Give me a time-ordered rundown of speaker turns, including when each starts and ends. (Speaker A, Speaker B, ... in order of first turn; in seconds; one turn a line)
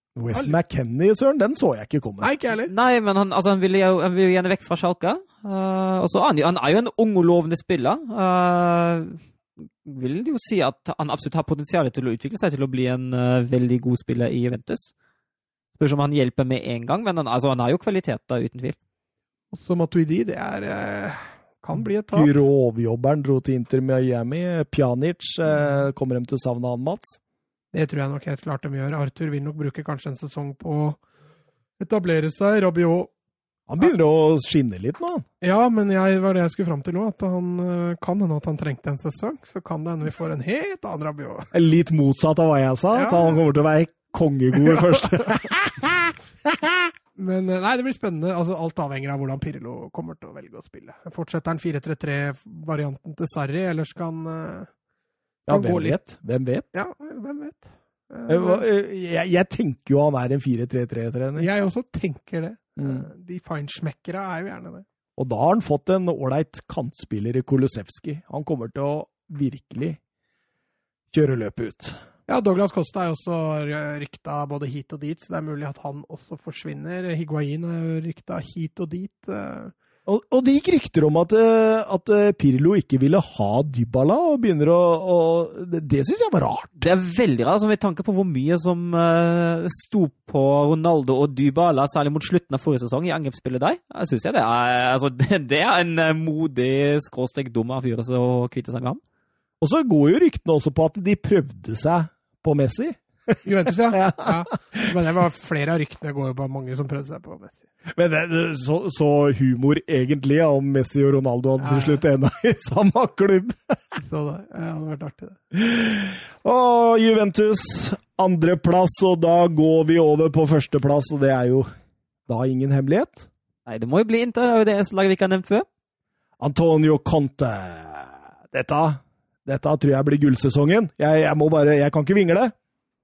Speaker A: 0.2-2.3
Speaker B: 2.2-2.7
Speaker C: 2.7-14.9
Speaker C: 15.8-18.8
Speaker B: 19.5-22.4
Speaker A: 22.1-27.2
Speaker B: 27.7-31.0
Speaker B: 31.8-33.1
Speaker A: 33.7-35.2
Speaker B: 35.4-41.5
Speaker A: 41.5-46.9
Speaker B: 42.9-43.4
Speaker B: 44.6-45.3
Speaker B: 47.2-54.7
Speaker A: 55.5-56.7
Speaker B: 55.5-56.0
Speaker B: 56.7-58.7
Speaker A: 58.3-61.5
Speaker B: 61.4-64.8
Speaker A: 62.8-63.1
Speaker A: 65.2-70.0
Speaker A: 71.1-72.0
Speaker B: 72.3-79.7
Speaker A: 80.1-86.8
Speaker C: 86.8-99.0
Speaker A: 99.6-105.0
Speaker B: 103.5-107.6
Speaker A: 107.9-113.8
Speaker B: 111.6-112.0
Speaker B: 114.0-115.4
Speaker A: 115.5-121.7
Speaker A: 122.3-123.3
Speaker C: 123.7-125.7
Speaker A: 126.4-132.5